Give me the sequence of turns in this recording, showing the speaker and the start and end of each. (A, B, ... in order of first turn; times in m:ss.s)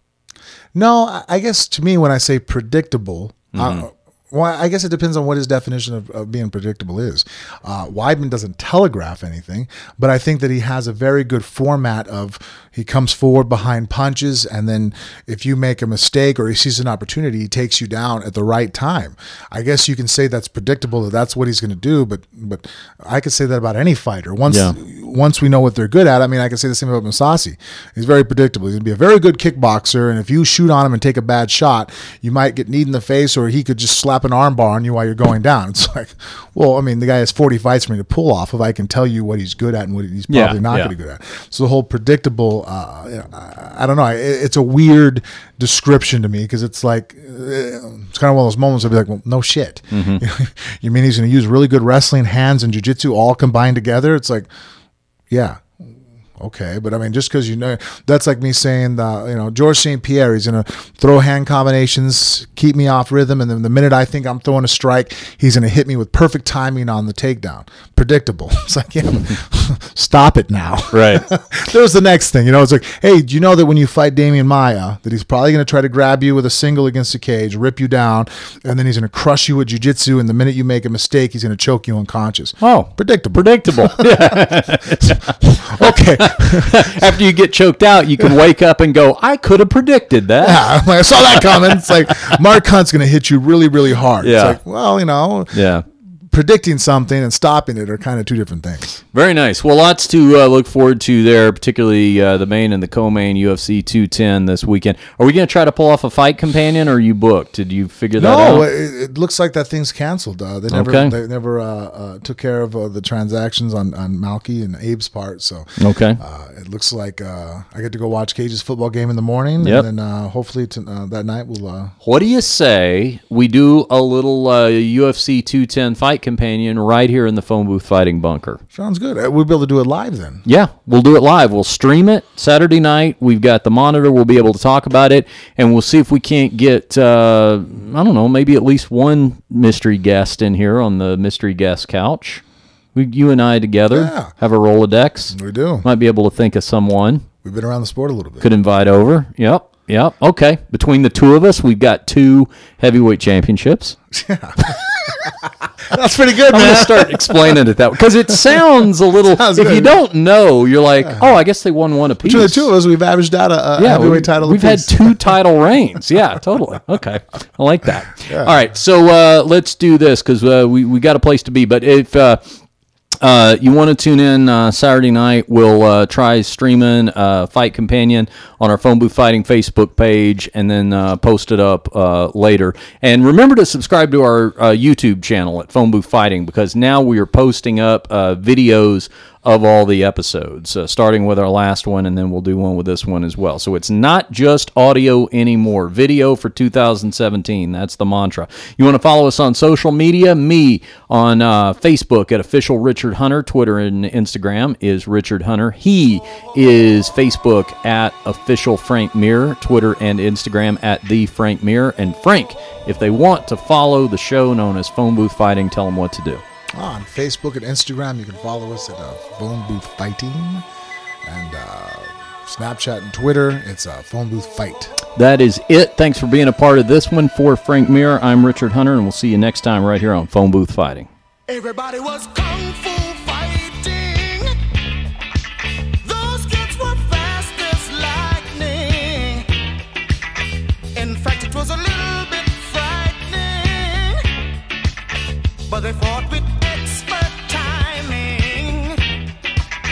0:00.7-0:54.5 A
0:03.5-0:03.8 B
0:24.5-0:24.8 B
0:40.3-0:40.9 B
0:49.9-0:50.2 B
0:55.3-0:55.8 A
0:56.4-1:27.0 A
1:10.9-1:11.2 B
1:22.6-1:31.6 B
1:30.4-1:35.7 A
1:34.2-1:34.6 B
1:35.5-1:35.8 B
1:36.3-1:39.0 A
1:39.1-1:48.6 B
1:48.2-1:55.7 A
1:50.7-1:51.1 B
1:55.8-1:56.2 B
1:56.2-2:01.9 A
2:02.0-2:08.6 B
2:08.7-2:10.4 A
2:10.4-2:22.4 B
2:22.9-2:27.2 B
2:23.9-2:24.3 A
2:25.3-2:25.8 A
2:27.4-2:28.5 A
2:28.4-2:34.0 B
2:34.1-2:37.6 A
2:36.5-2:42.7 B
2:38.3-2:38.6 A
2:39.3-2:40.0 A
2:42.2-2:45.3 A
2:43.8-2:52.5 B
2:48.2-2:48.6 A
2:53.2-3:36.4 B
3:36.7-3:40.6 A
3:41.2-3:45.0 A
3:45.1-3:51.1 B
3:51.5-3:54.5 C
3:56.0-3:59.5 C
4:00.9-4:04.2 C
4:05.7-4:09.0 C